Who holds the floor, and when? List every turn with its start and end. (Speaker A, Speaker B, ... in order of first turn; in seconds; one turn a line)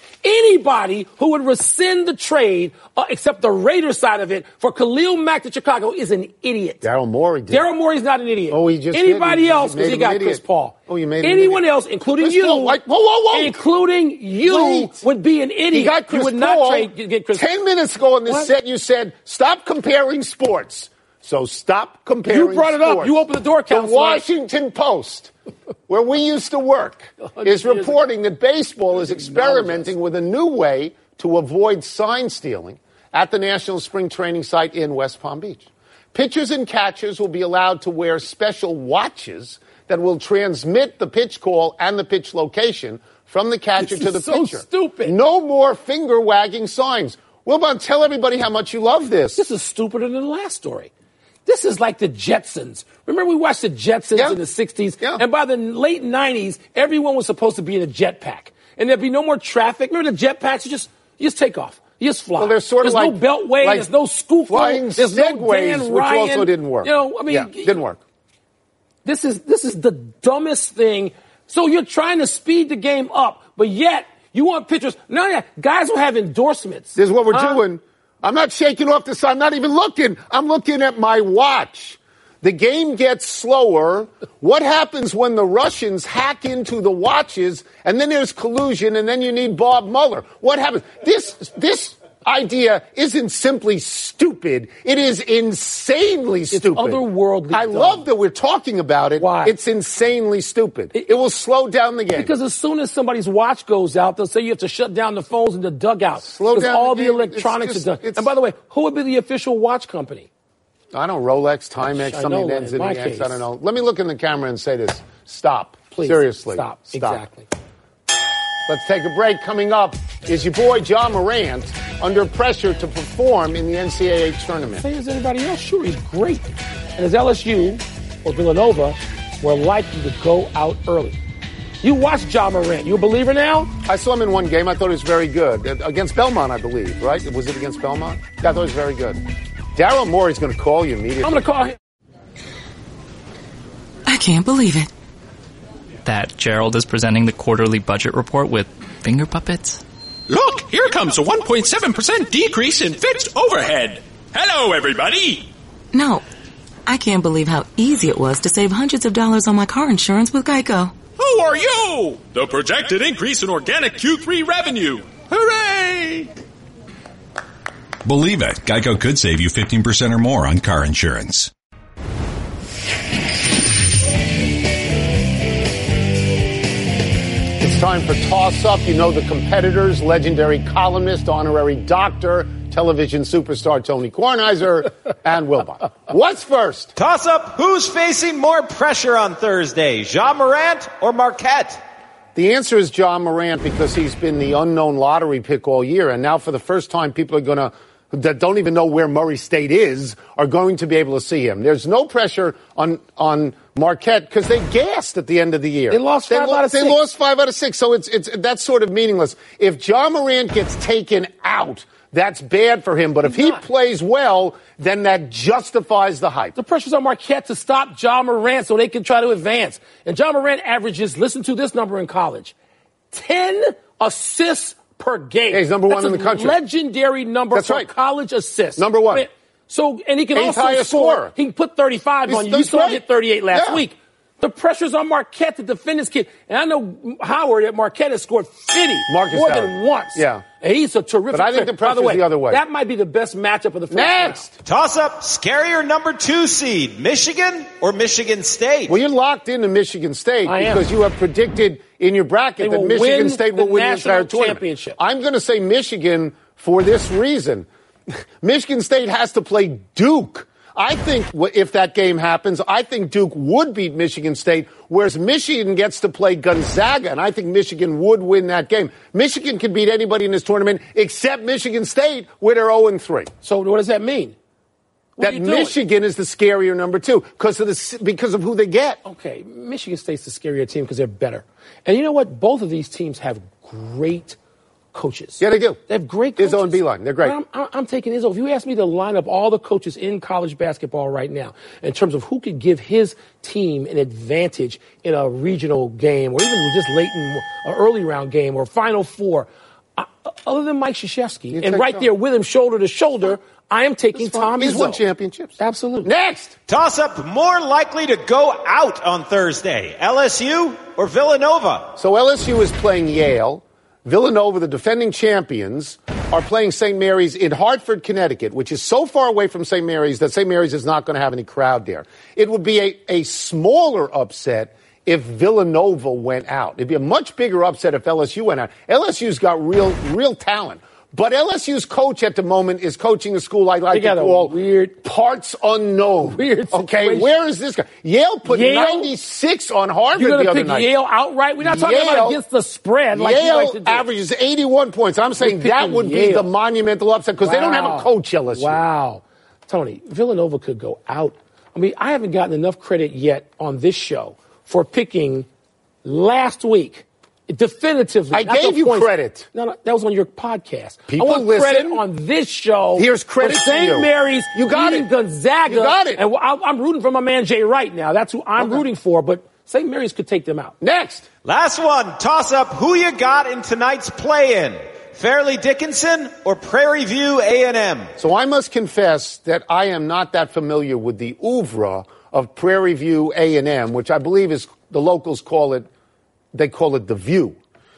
Speaker A: 0.2-6.8
Speaker B: 6.8-7.7
Speaker A: 7.5-12.8
Speaker B: 8.5-11.6
Speaker B: 12.2-13.6
Speaker A: 13.3-17.5
Speaker B: 14.4-15.0
Speaker B: 15.7-25.3
Speaker A: 22.3-24.2
Speaker B: 25.9-49.4
Speaker A: 27.2-28.0
Speaker A: 29.0-29.9
Speaker A: 43.8-45.1
Speaker A: 49.4-50.9
Speaker A: 51.5-67.8
Speaker B: 62.4-63.9
Speaker B: 64.5-68.0
Speaker A: 69.0-77.6
Speaker B: 77.0-102.3
Speaker A: 96.5-98.0
Speaker A: 99.2-99.5
Speaker A: 102.1-110.3
Speaker B: 106.2-108.3
Speaker B: 110.9-117.2
Speaker A: 111.8-113.4
Speaker A: 115.9-117.5
Speaker B: 118.7-124.8
Speaker A: 124.8-131.2
Speaker A: 131.8-133.7
Speaker B: 133.8-139.2
Speaker B: 139.7-141.4
Speaker A: 141.2-141.8
Speaker C: 144.1-144.9
Speaker D: 146.0-149.8
Speaker E: 150.3-155.5
Speaker C: 155.9-156.2
Speaker C: 156.8-160.9
Speaker E: 161.2-166.3
Speaker F: 168.0-171.5
Speaker B: 177.6-186.9
Speaker G: 186.9-191.8
Speaker B: 192.3-216.6
Speaker A: 205.9-207.0
Speaker A: 213.2-213.6
Speaker A: 216.6-222.5
Speaker A: 223.1-244.5
Speaker B: 225.5-226.6
Speaker B: 227.5-227.9
Speaker B: 228.8-229.3
Speaker B: 230.3-231.3
Speaker B: 232.3-233.8
Speaker B: 239.1-240.4
Speaker B: 241.3-242.6
Speaker B: 243.9-244.5
Speaker G: 244.6-249.0
Speaker B: 248.9-273.3
Speaker A: 250.4-250.9
Speaker A: 252.6-255.0
Speaker A: 273.4-274.3
Speaker A: 275.2-275.8
Speaker B: 275.2-279.0
Speaker A: 279.0-284.4
Speaker A: 284.9-305.0
Speaker B: 285.4-285.8
Speaker B: 286.4-287.4
Speaker B: 301.5-302.1
Speaker B: 304.1-306.6
Speaker A: 305.6-306.1
Speaker G: 306.7-311.9
Speaker B: 312.0-340.9
Speaker A: 333.9-334.9
Speaker A: 336.3-337.3
Speaker A: 338.4-339.1
Speaker A: 340.1-344.1
Speaker B: 341.6-342.4
Speaker B: 343.1-348.8
Speaker A: 345.4-346.5
Speaker A: 347.4-355.5
Speaker A: 356.0-370.7
Speaker B: 358.3-359.5
Speaker B: 361.1-362.0
Speaker B: 362.9-365.1
Speaker B: 365.7-366.2
Speaker B: 368.6-368.8
Speaker B: 370.8-371.2
Speaker G: 371.4-378.1
Speaker B: 378.2-385.9
Speaker B: 386.5-387.6